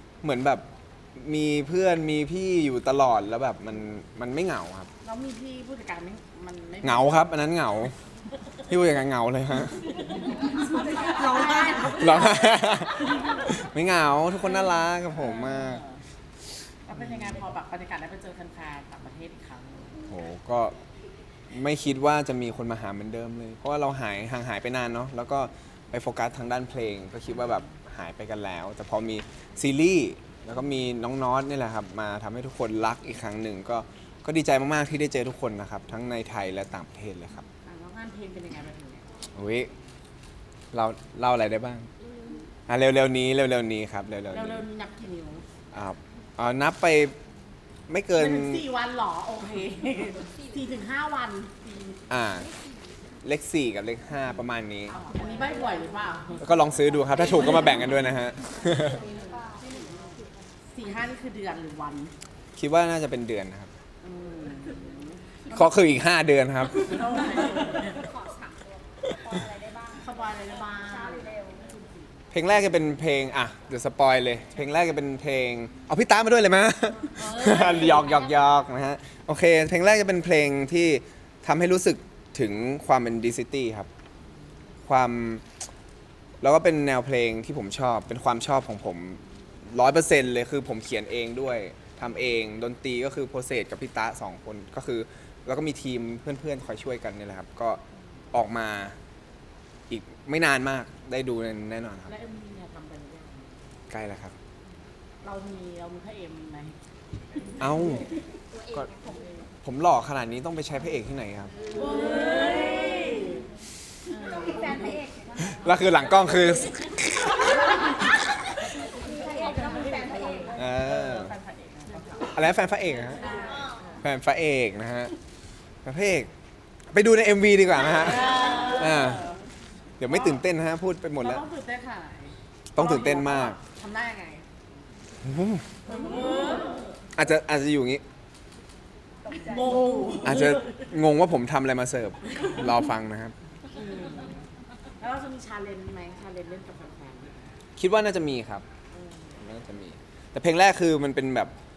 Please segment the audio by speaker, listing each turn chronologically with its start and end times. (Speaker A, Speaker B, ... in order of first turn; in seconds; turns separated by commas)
Speaker A: 0.2-4.9, Speaker B: 5.0-7.3, Speaker A: 6.8-7.9, Speaker A: 8.7-9.9, Speaker B: 9.9-12.5, Speaker C: 10.4-12.3, Speaker A: 11.9-15.8, Speaker B: 13.2-13.4, Speaker B: 14.4-16.0, Speaker B: 16.9-20.0, Speaker A: 16.9-17.4, Speaker A: 20.1-20.8, Speaker A: 21.5-37.5, Speaker B: 37.6-39.1, Speaker A: 39.4-39.7, Speaker A: 40.7-41.9, Speaker A: 42.7-44.6, Speaker B: 44.3-45.4, Speaker A: 45.7-47.2, Speaker A: 47.9-48.6, Speaker B: 48.1-52.0, Speaker A: 52.1-52.5, Speaker A: 53.2-55.0, Speaker B: 54.9-56.5, Speaker C: 55.0-55.8, Speaker A: 56.4-59.0, Speaker C: 57.3-57.7, Speaker C: 58.7-60.3, Speaker B: 59.1-59.4, Speaker B: 60.7-62.1, Speaker A: 62.6-63.7, Speaker B: 64.0-65.2, Speaker A: 65.5-67.2, Speaker B: 66.8-68.1, Speaker C: 67.2-71.8, Speaker B: 70.0-71.8, Speaker A: 72.3-83.9, Speaker C: 77.2-78.4, Speaker A: 84.9-85.5, Speaker A: 86.4-97.8, Speaker A: 98.3-99.0, Speaker A: 99.9-102.1, Speaker B: 102.1-103.6, Speaker A: 103.9-104.4, Speaker B: 105.2-106.8, Speaker A: 107.6-108.2, Speaker A: 108.7-109.0, Speaker A: 109.6-111.5, Speaker B: 111.7-113.4, Speaker C: 111.8-112.8, Speaker B: 114.1-114.9, Speaker C: 114.2-115.6, Speaker A: 115.5-118.0, Speaker C: 118.9-120.6, Speaker B: 119.0-122.4, Speaker A: 120.5-121.3, Speaker A: 122.3-123.3, Speaker C: 123.2-123.8, Speaker B: 123.2-124.0, Speaker A: 124.0-125.1, Speaker A: 125.8-126.3, Speaker A: 126.9-129.2, Speaker B: 128.1-129.4, Speaker A: 130.0-131.4, Speaker B: 130.1-130.4, Speaker B: 131.2-134.5, Speaker A: 132.8-133.6, Speaker A: 135.2-135.7, Speaker B: 135.9-136.8, Speaker A: 137.2-138.0, Speaker C: 139.3-140.2, Speaker B: 139.3-140.9, Speaker A: 140.2-143.3, Speaker B: 143.7-144.4, Speaker B: 145.0-147.5, Speaker A: 147.8-148.7, Speaker A: 149.4-151.5